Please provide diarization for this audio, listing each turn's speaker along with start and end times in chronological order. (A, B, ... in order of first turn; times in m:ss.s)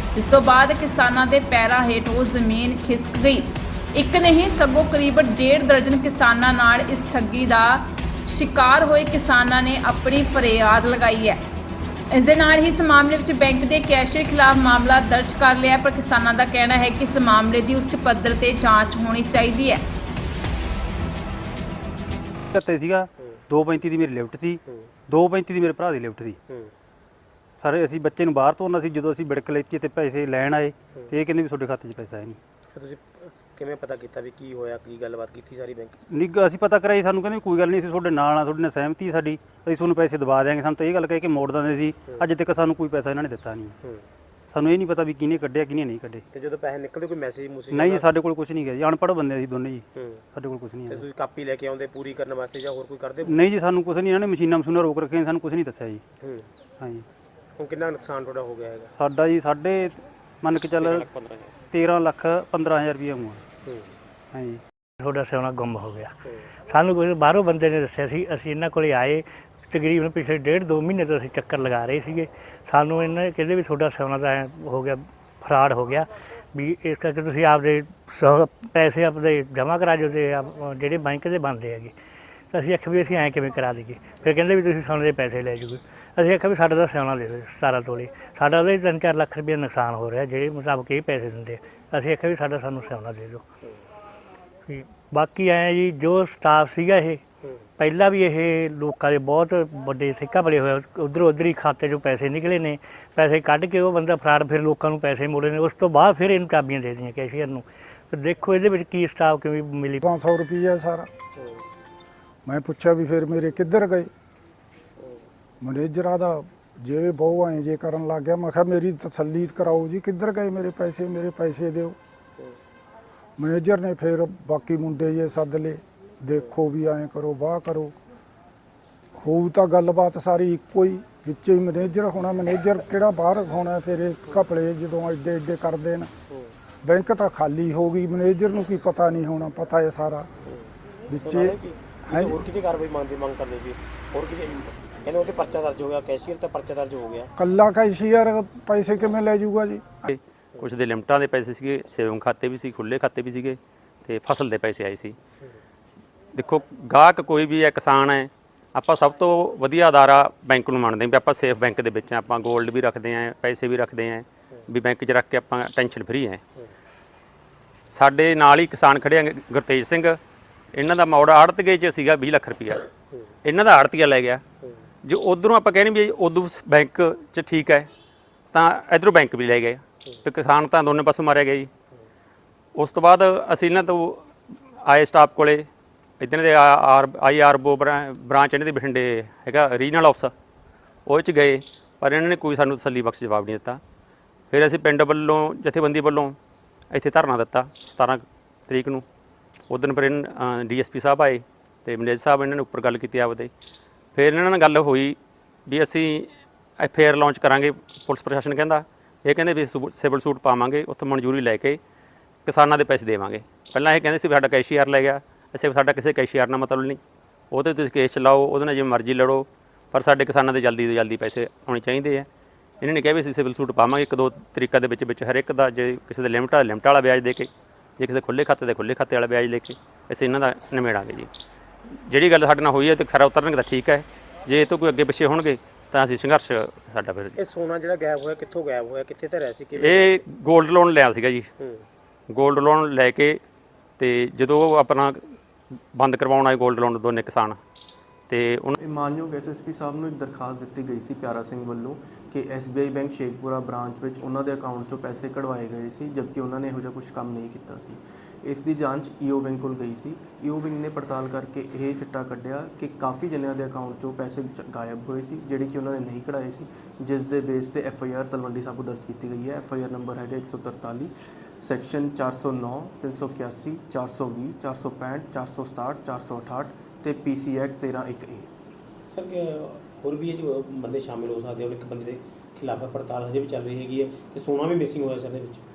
0:00.2-0:11.4 A
0:12.1-0:19.8 A
0:22.5-0:26.4 B
0:26.5-0:26.7 C
0:27.6-0:32.4 B
0:32.7-0:36.0 C
0:36.1-0:43.8 B
0:44.5-0:46.2 B
0:46.3-0:48.1 C
0:47.7-0:51.0 B
0:50.0-0:50.2 C
0:50.9-0:53.4 C
0:53.2-0:56.0 B
0:56.2-0:56.5 C
0:56.8-0:57.0 B
0:57.6-0:58.9 C
0:59.0-1:01.0 B
1:00.8-1:01.5 D
1:01.7-1:03.4 B
1:03.6-1:03.9 C
1:04.3-1:04.6 B
1:05.0-1:06.2 E
1:06.7-1:21.9 E
1:22.5-1:33.5 E
1:34.7-1:37.2 E
1:37.8-1:50.0 E
1:50.0-1:51.1 F
1:51.4-1:51.6 C
1:52.5-1:54.1 F
1:55.0-1:55.2 C
1:55.6-2:02.0 F
2:03.4-2:07.9 F
2:09.2-2:16.1 F
2:16.3-2:16.5 C
2:16.8-2:20.3 F
2:20.5-2:20.7 C
2:21.1-2:22.4 F
2:21.2-2:27.3 C
2:27.4-2:30.1 F
2:30.1-2:35.2 D
2:36.3-2:46.4 D
2:47.9-2:50.2 D
2:50.8-2:52.9 D
2:53.4-2:54.4 D
2:55.0-2:57.9 D
2:58.5-3:01.7 D
3:02.8-3:04.2 D
3:04.8-3:05.7 D
3:06.2-3:10.3 D
3:11.1-3:13.8 D
3:14.5-3:16.4 D
3:16.9-3:19.0 D
3:19.7-3:23.5 D
3:24.1-3:31.8 D
3:32.4-3:37.0 D
3:37.5-3:42.3 D
3:42.8-3:51.3 D
3:51.9-3:57.4 D
3:57.4-4:00.2 C
3:59.8-4:01.5 D
4:02.3-4:03.4 D
4:04.0-4:05.2 D
4:05.9-4:07.6 D
4:08.3-4:08.8 D
4:08.8-4:38.5 G
4:39.1-4:45.6 C